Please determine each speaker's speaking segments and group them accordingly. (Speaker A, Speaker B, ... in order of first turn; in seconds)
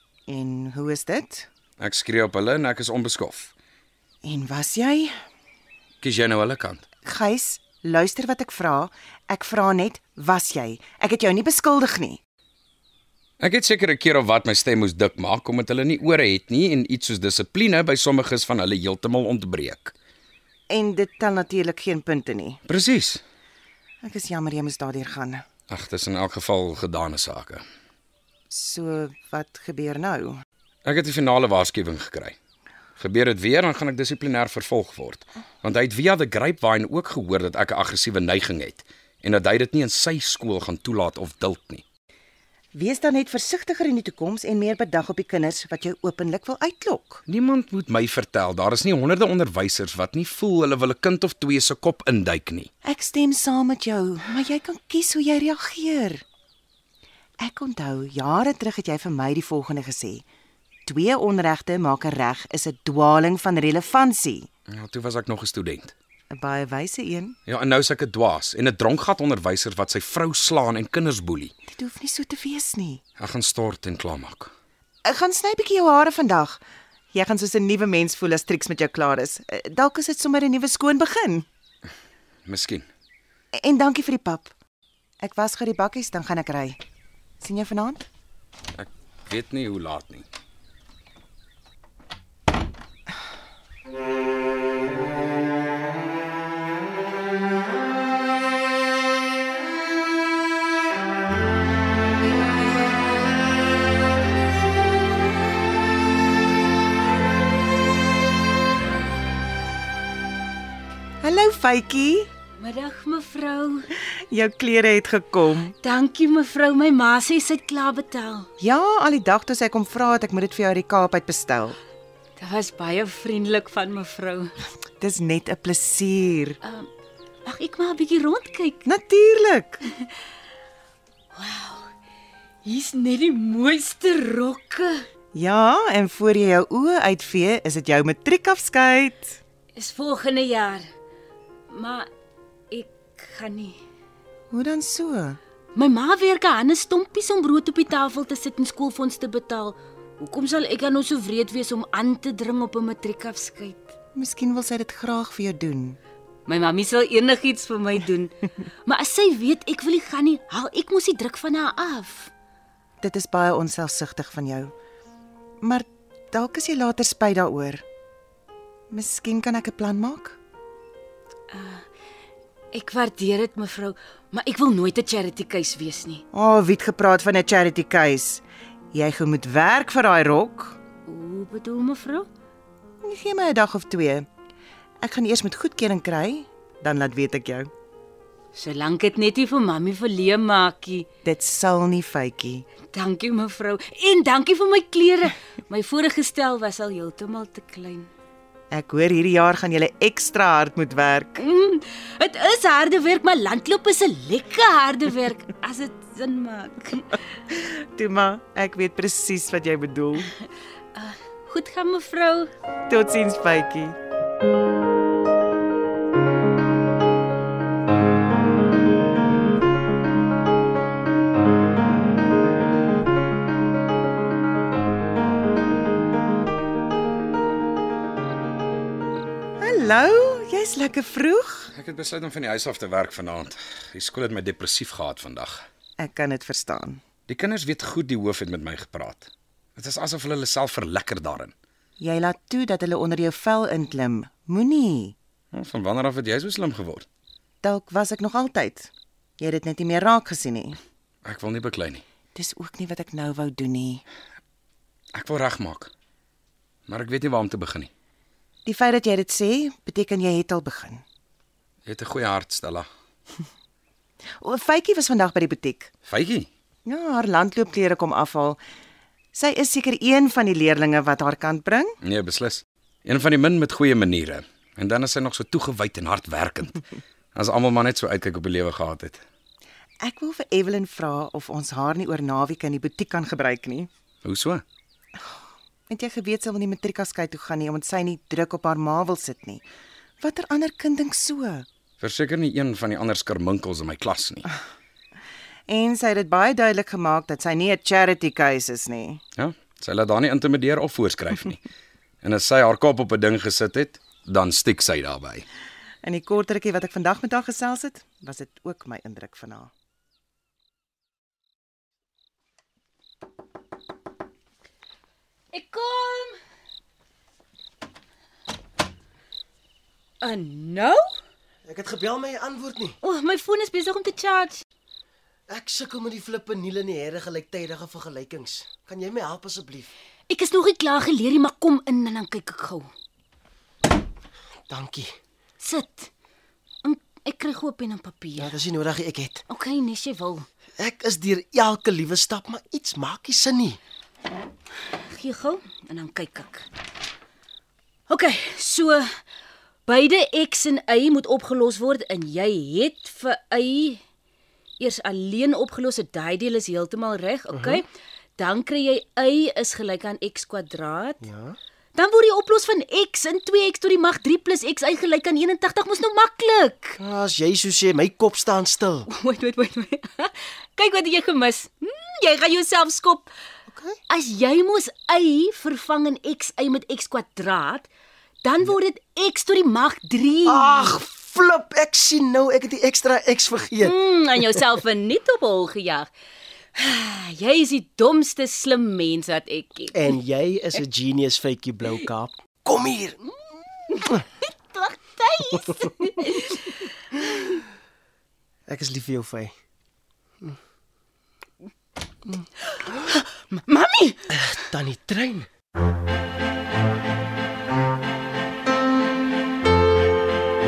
Speaker A: 0.3-1.5, 4.2-5.1, 7.0-12.2, 20.7-22.6, 24.0-25.4, 28.5-30.4, 42.7-47.2, 52.9-56.2, 57.4-60.2, 60.9-64.5, 66.3-67.4, 71.7-73.0, 75.1-76.6, 77.1-81.5, 83.6-84.5, 85.2-86.8, 87.4-88.1, 111.2-112.3, 114.3-115.8, 118.6-121.8, 125.0-126.6, 128.8-129.8, 135.3-139.4, 144.5-145.4, 154.2-156.0, 163.0-164.7, 165.6-167.8, 168.9-170.4, 176.3-180.8, 183.0-184.3, 185.0-187.7, 191.2-192.7, 198.7-201.4, 207.5-210.3, 212.9-214.0, 229.6-231.7, 236.0-237.0, 242.0-245.2, 247.6-250.8, 252.3-254.0, 258.7-261.0, 264.4-265.9, 266.9-268.6, 269.3-272.0, 280.0-283.9, 285.9-289.6, 290.2-291.7, 295.7-299.2, 306.0-309.7
Speaker B: 1.8-3.5, 6.0-6.8, 13.4-19.9, 22.7-23.2, 25.7-27.6, 30.9-32.4, 33.0-41.8, 47.3-52.7, 64.7-65.9, 67.5-71.5, 73.2-74.5, 82.5-82.9, 88.8-90.3, 231.7-235.7, 237.3-241.5, 245.5-247.1, 251.2-252.0, 255.1-255.9, 256.9-257.9, 261.9-262.9, 266.1-266.5, 272.0-276.8, 277.4-279.2, 284.2-284.6, 292.0-294.5, 299.4-301.6, 302.2-305.4
Speaker C: 112.6-113.8, 115.8-118.5, 122.4-124.5, 127.5-128.8, 131.3-131.8, 132.7-134.9, 139.8-140.8, 141.7-142.1, 142.7-143.7, 145.8-153.9, 156.5-158.3, 158.9-162.3, 171.5-171.8, 172.7-176.2, 181.1-182.2, 188.6-191.1, 192.9-198.1, 201.4-207.1, 211.0-212.5, 315.5-316.4, 320.2-321.0, 323.0-324.6, 330.3-332.9, 335.6-336.1, 336.9-338.5, 339.5-340.5, 345.1-346.6, 348.1-349.0, 349.9-354.0, 354.8-357.8, 358.4-361.2, 362.0-367.0, 369.2-373.3, 374.1-377.9, 378.4-380.9, 383.9-386.1, 386.8-389.9, 394.7-396.6, 403.5-404.2
Speaker D: 321.6-323.0, 325.5-329.9, 334.7-335.1, 338.4-339.4, 340.8-343.8, 357.5-357.8, 361.2-361.6, 367.0-369.1, 380.4-384.6, 389.9-393.2, 398.7-399.6, 404.3-405.5